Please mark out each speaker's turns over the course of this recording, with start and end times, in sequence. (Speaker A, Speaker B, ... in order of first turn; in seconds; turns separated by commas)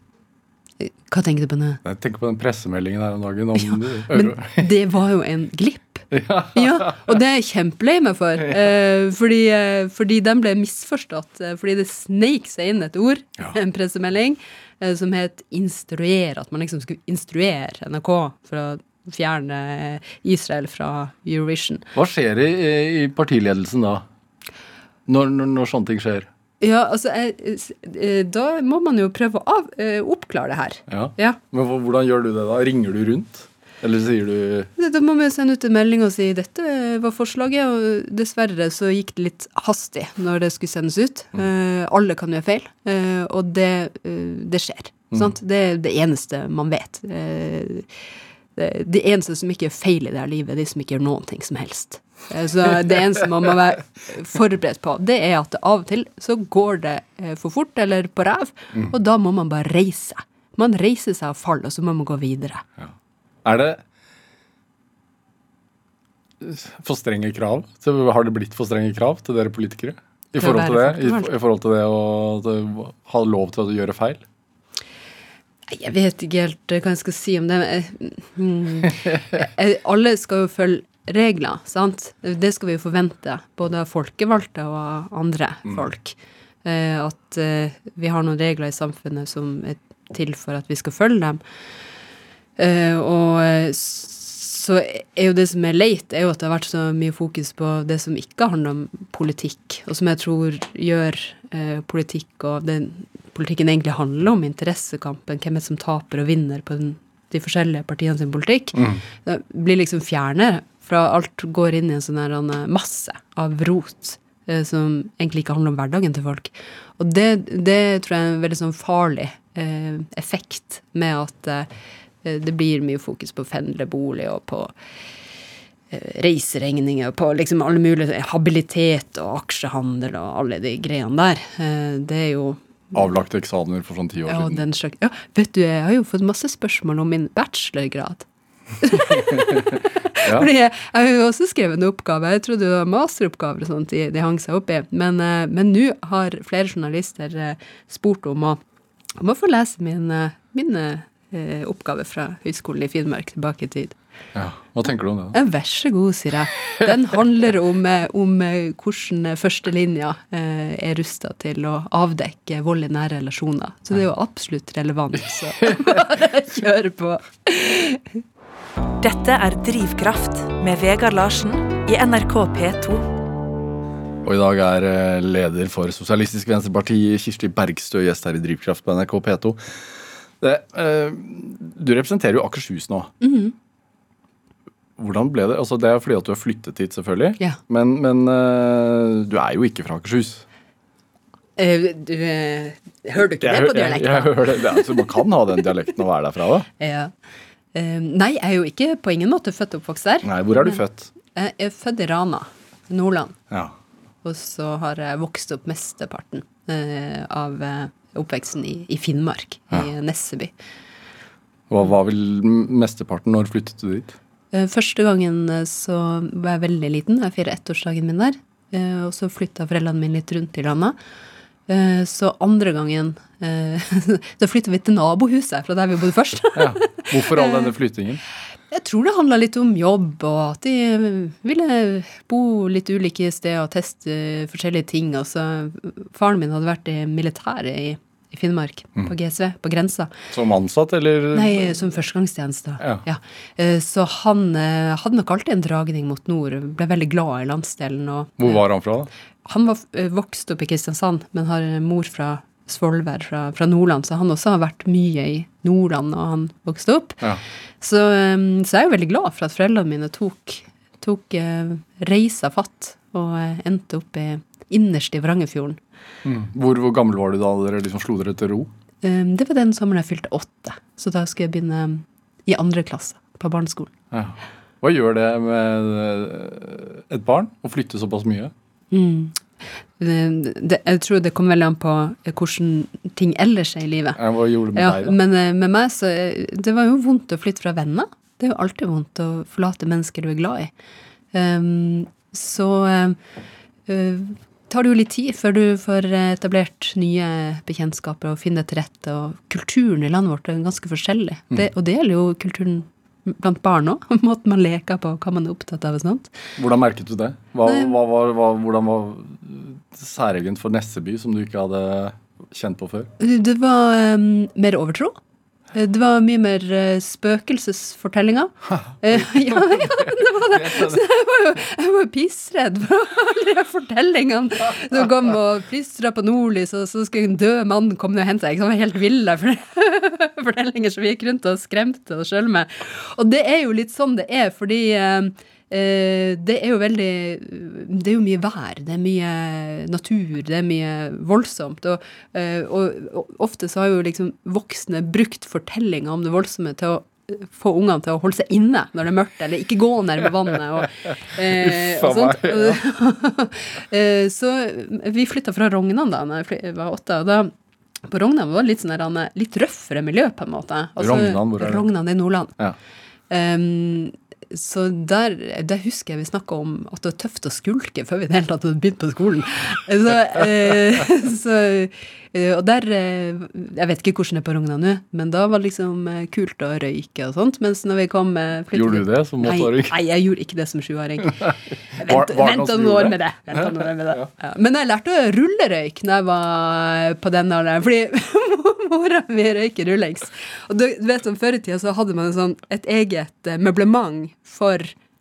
Speaker A: 0.8-1.8, Speaker B: 1.8-4.7, Speaker A: 3.7-21.9, Speaker B: 6.1-7.2, Speaker B: 21.9-24.1, Speaker B: 25.1-26.3, Speaker A: 26.6-31.4, Speaker B: 30.9-34.7, Speaker A: 34.8-47.9, Speaker A: 48.6-62.6, Speaker B: 63.5-63.8, Speaker B: 66.4-74.2, Speaker A: 70.4-71.3, Speaker A: 75.7-91.4, Speaker A: 92.6-121.7, Speaker B: 108.7-109.0, Speaker A: 122.2-124.7, Speaker A: 125.9-133.0, Speaker B: 132.9-134.6, Speaker A: 134.3-138.3, Speaker A: 138.8-148.6, Speaker B: 139.1-140.5, Speaker A: 149.2-154.0, Speaker B: 154.3-155.4, Speaker A: 155.3-168.2, Speaker C: 169.0-173.1, Speaker B: 174.2-179.8, Speaker B: 180.4-183.1, Speaker A: 183.2-183.6, Speaker B: 185.0-190.4, Speaker A: 191.6-195.1, Speaker B: 193.4-196.7, Speaker A: 196.8-197.1, Speaker A: 197.7-200.8, Speaker B: 200.2-201.1, Speaker A: 201.3-203.4, Speaker B: 203.5-203.8, Speaker A: 204.2-210.5, Speaker B: 211.7-214.2, Speaker A: 214.5-221.0, Speaker A: 221.7-227.7, Speaker B: 226.6-228.2, Speaker A: 228.7-240.1, Speaker B: 240.3-241.7, Speaker A: 241.3-248.6, Speaker B: 248.4-249.1, Speaker A: 249.4-257.3, Speaker A: 257.8-265.8, Speaker B: 266.2-268.7, Speaker A: 269.0-273.9, Speaker B: 274.1-278.5, Speaker A: 278.9-279.5, Speaker A: 280.0-284.2, Speaker B: 284.2-285.2, Speaker A: 284.7-290.7, Speaker A: 291.3-293.2, Speaker A: 293.9-306.3, Speaker B: 306.6-313.1, Speaker A: 307.7-307.9, Speaker A: 313.2-315.2, Speaker A: 315.7-357.5, Speaker B: 318.7-321.0, Speaker B: 351.5-352.8, Speaker A: 358.1-362.6, Speaker B: 361.0-361.9, Speaker A: 363.3-394.9, Speaker B: 378.7-379.9, Speaker B: 381.5-384.3